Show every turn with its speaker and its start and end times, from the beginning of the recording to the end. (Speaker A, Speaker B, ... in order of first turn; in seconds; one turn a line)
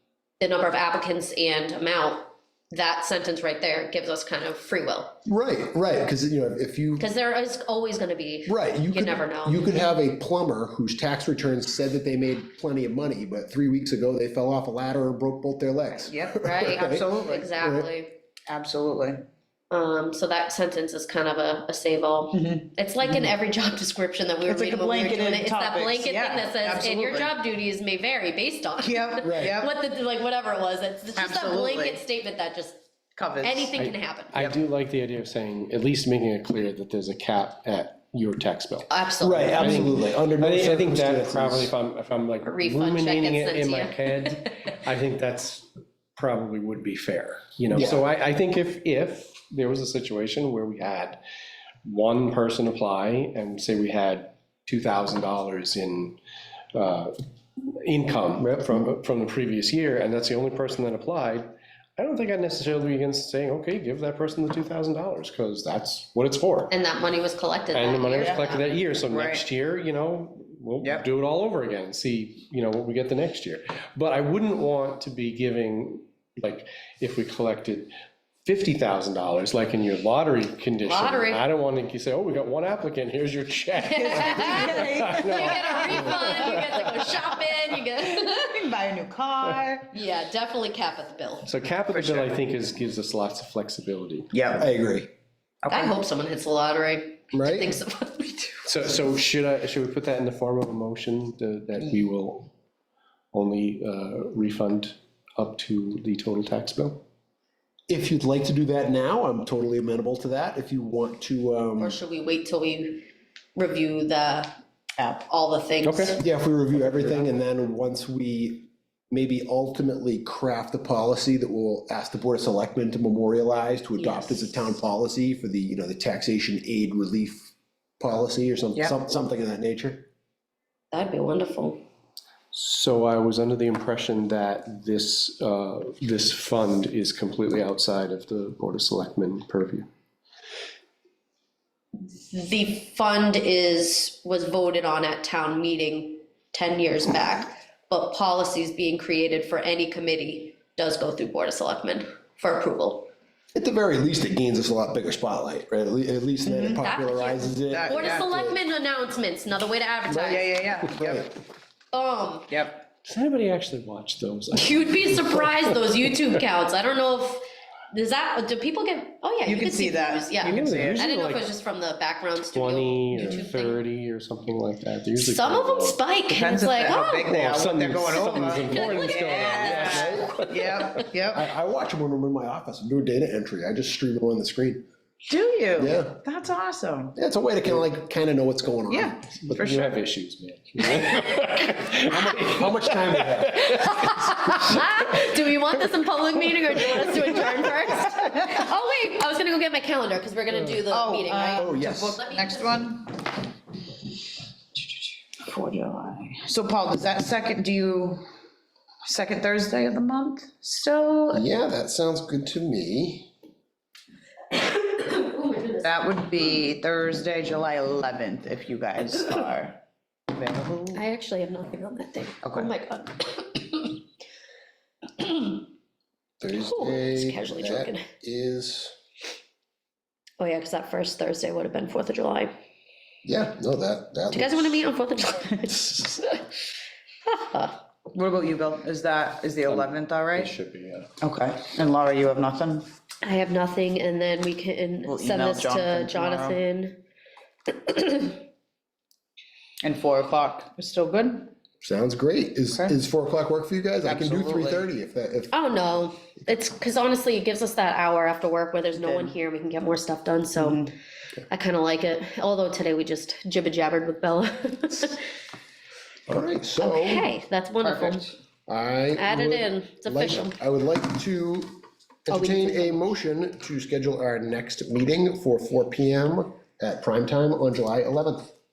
Speaker A: 0.4-5.2
Speaker B: 5.2-7.0
Speaker A: 7.0-9.6
Speaker B: 8.5-17.9
Speaker C: 15.9-17.5
Speaker A: 16.4-18.1
Speaker C: 18.5-19.2
Speaker A: 19.7-32.8
Speaker C: 22.3-23.3
Speaker C: 24.4-27.3
Speaker C: 28.8-29.7
Speaker B: 29.2-29.6
Speaker C: 31.1-32.0
Speaker C: 33.1-33.7
Speaker A: 33.4-34.4
Speaker D: 33.8-51.2
Speaker A: 38.9-39.9
Speaker B: 39.2-41.7
Speaker A: 42.4-44.6
Speaker B: 47.7-48.0
Speaker D: 51.8-56.2
Speaker D: 56.7-57.1
Speaker D: 57.8-66.7
Speaker B: 58.4-58.9
Speaker A: 66.7-68.6
Speaker D: 67.7-77.9
Speaker C: 68.2-68.5
Speaker C: 69.1-69.4
Speaker D: 78.4-87.1
Speaker A: 80.8-81.4
Speaker A: 83.8-88.6
Speaker C: 84.0-86.7
Speaker C: 88.1-89.9
Speaker A: 89.9-91.5
Speaker D: 91.5-94.4
Speaker C: 91.9-92.3
Speaker C: 94.3-94.7
Speaker B: 94.6-95.1
Speaker C: 95.6-95.9
Speaker A: 95.7-98.7
Speaker B: 97.3-97.8
Speaker D: 98.6-102.5
Speaker D: 103.3-107.0
Speaker B: 107.9-112.0
Speaker A: 111.8-114.6
Speaker C: 115.0-115.2
Speaker A: 115.3-116.2
Speaker D: 115.8-116.2
Speaker B: 116.2-130.1
Speaker A: 124.0-124.7
Speaker A: 130.9-131.8
Speaker D: 132.5-139.9
Speaker A: 142.2-153.1
Speaker B: 153.5-158.6
Speaker C: 156.4-156.8
Speaker A: 156.7-160.5
Speaker C: 157.7-158.2
Speaker B: 160.1-160.4
Speaker C: 160.2-161.2
Speaker B: 160.9-161.3
Speaker A: 161.9-162.5
Speaker C: 162.5-162.8
Speaker D: 163.0-166.4
Speaker A: 164.5-173.8
Speaker C: 169.4-171.0
Speaker D: 170.4-171.5
Speaker D: 172.5-176.0
Speaker A: 175.2-177.4
Speaker C: 176.3-181.5
Speaker D: 177.2-180.8
Speaker A: 178.1-179.9
Speaker B: 179.9-180.4
Speaker B: 181.3-184.8
Speaker C: 185.3-187.1
Speaker B: 185.7-186.2
Speaker B: 187.1-189.8
Speaker C: 188.9-189.8
Speaker D: 189.5-194.8
Speaker B: 192.1-193.9
Speaker A: 193.8-202.9
Speaker C: 200.9-203.2
Speaker B: 201.6-202.2
Speaker C: 205.3-208.2
Speaker C: 209.0-211.4
Speaker B: 211.3-213.3
Speaker A: 214.9-215.9
Speaker C: 215.8-219.8
Speaker C: 220.3-221.0
Speaker A: 220.9-224.0
Speaker C: 222.4-222.7
Speaker A: 225.2-225.6
Speaker B: 226.4-228.9
Speaker A: 226.5-228.1
Speaker A: 230.4-232.5
Speaker B: 233.2-234.8
Speaker A: 234.3-236.4
Speaker A: 237.2-237.8
Speaker C: 238.1-240.5
Speaker D: 239.7-241.1
Speaker C: 241.2-242.9
Speaker A: 243.2-247.0
Speaker C: 245.1-246.6
Speaker A: 247.7-248.4
Speaker C: 249.8-251.5
Speaker B: 251.8-255.5
Speaker C: 254.0-254.8
Speaker A: 255.5-260.9
Speaker C: 259.0-259.3
Speaker C: 260.6-260.9
Speaker A: 261.5-265.2
Speaker B: 266.3-267.3
Speaker A: 266.8-268.3
Speaker C: 267.8-268.3
Speaker B: 268.7-278.5
Speaker A: 269.1-270.6
Speaker A: 272.3-273.1